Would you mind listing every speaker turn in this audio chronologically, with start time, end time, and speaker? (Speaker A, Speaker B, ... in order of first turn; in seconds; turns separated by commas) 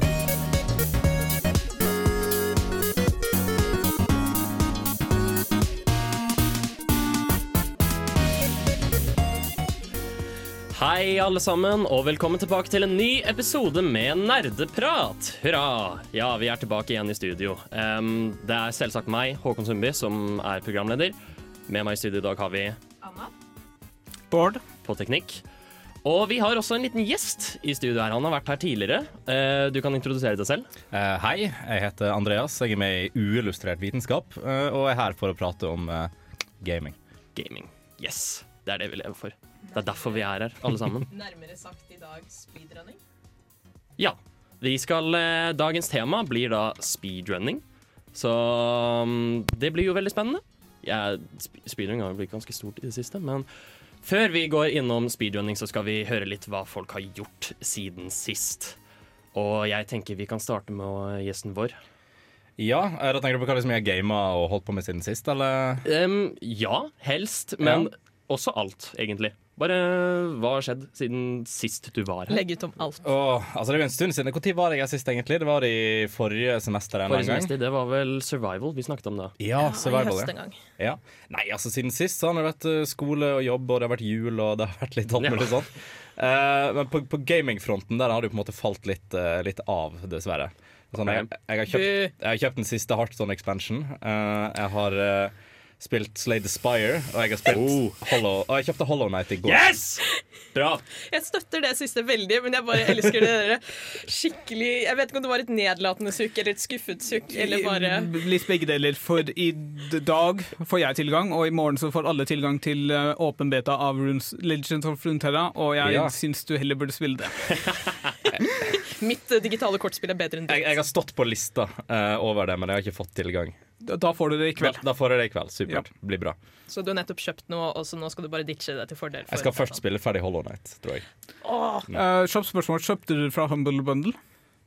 Speaker A: 10.7-21.1, Speaker A: 21.7-22.8, Speaker B: 23.0-23.3, Speaker C: 24.3-24.6, Speaker A: 24.8-25.4, Speaker A: 26.0-30.7, Speaker D: 30.9-37.0, Speaker A: 37.4-41.1, Speaker B: 39.7-40.2, Speaker B: 41.1-43.0, Speaker A: 44.0-47.6, Speaker A: 48.1-53.5, Speaker A: 54.0-58.8, Speaker A: 59.3-61.8, Speaker D: 62.6-65.8, Speaker A: 65.8-72.4, Speaker D: 67.6-67.9, Speaker B: 72.3-73.1, Speaker D: 73.0-77.5, Speaker A: 77.1-79.4, Speaker D: 79.4-99.6, Speaker B: 79.6-80.6, Speaker A: 85.2-85.5, Speaker A: 91.0-91.3, Speaker B: 91.7-92.1, Speaker A: 97.5-98.0, Speaker A: 99.5-100.8, Speaker B: 101.0-108.2, Speaker C: 107.3-117.7, Speaker D: 115.8-116.1, Speaker A: 117.6-118.1, Speaker B: 118.7-120.8, Speaker D: 120.5-123.6, Speaker C: 123.8-124.8, Speaker D: 124.6-126.4, Speaker B: 126.7-129.8, Speaker D: 129.3-131.1, Speaker B: 131.5-131.8, Speaker C: 131.9-134.2